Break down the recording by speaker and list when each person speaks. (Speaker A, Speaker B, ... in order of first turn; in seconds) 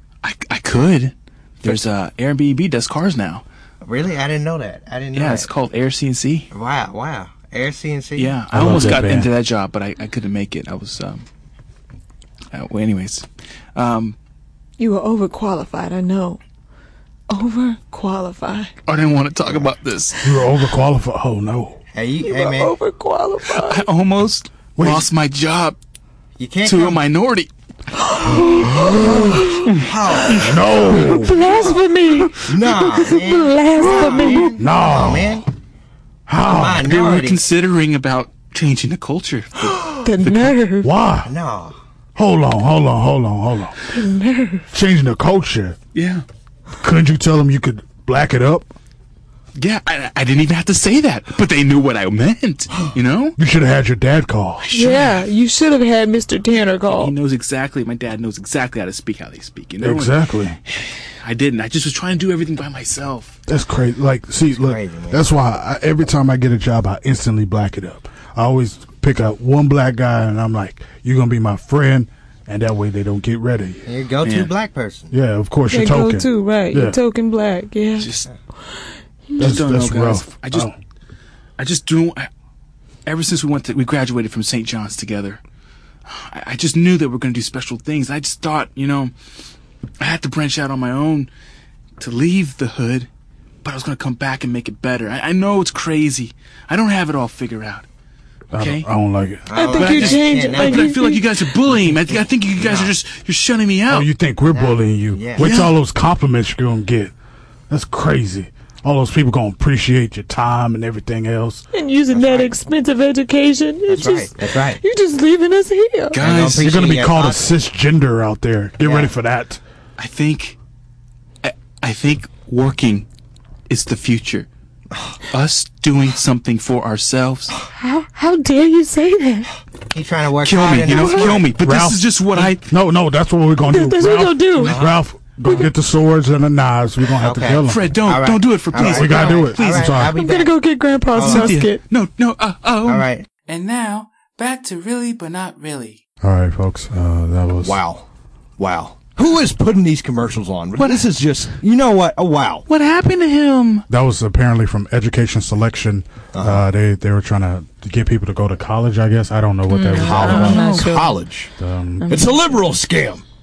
Speaker A: 0.2-3.4, 5.1-6.5, 8.1-11.2, 12.5-14.2, 18.9-20.2, 23.5-25.8, 26.6-27.5, 36.8-40.5, 45.9-46.2, 49.5-53.4, 54.6-55.2, 56.9-63.4, 74.2-74.5, 78.0-78.3, 79.4-80.7, 81.6-82.3, 83.0-85.4, 86.0-89.1, 90.0-91.3, 92.0-93.1, 93.6-97.8, 98.5-98.9, 99.7-104.1, 105.4-105.7, 116.1-116.8, 120.0-120.6, 121.4-123.1, 123.7-124.5, 125.3-127.6, 130.4-132.7, 137.7-140.1, 141.2-146.0, 150.8-151.1, 152.7-153.8, 160.3-160.9, 162.0-162.4
Speaker B: 3.8-5.4, 6.5-8.2, 21.9-22.7, 26.4-26.8, 29.3-30.5, 32.5-35.4, 36.5-37.4, 41.2-41.7, 74.2-75.1, 99.5-100.7, 114.0-114.7, 116.2-117.2, 130.2-131.3, 138.8-139.1, 139.8-140.2, 147.6-148.1, 148.6-152.7, 156.3-156.6, 160.0-161.5, 162.1-163.2
Speaker C: 3.9-5.4, 6.5-8.3, 26.4-26.9, 64.7-65.1, 73.9-75.1, 99.6-100.8, 102.6-102.9, 104.5-105.4, 112.2-112.5, 113.9-114.8, 116.2-117.4, 129.9-131.4, 134.7-134.9, 137.2-140.5, 141.2-141.5, 142.9-143.2
Speaker D: 8.5-9.3, 20.2-21.8, 24.8-25.1, 28.2-29.7, 30.2-31.6, 34.6-35.5, 36.3-36.9, 40.8-41.3, 42.1-43.8, 44.7-45.8, 46.8-48.7, 53.4-54.6, 59.8-60.6, 63.5-73.9, 75.1-77.0, 79.4-80.7, 98.5-99.5, 103.9-107.1, 107.7-111.6, 116.5-119.6, 131.6-138.0, 138.7-140.2, 146.2-147.8, 153.9-160.6, 161.6-162.2
Speaker E: 14.8-16.4, 17.3-18.7, 22.2-23.8, 27.9-29.7, 30.9-34.5, 40.0-40.9, 43.9-44.6, 54.7-57.1, 75.7-78.1, 78.7-79.4, 99.5-101.3, 111.7-116.2, 127.7-129.5, 130.9-131.3, 133.7-134.8, 140.1-141.8, 159.7-161.2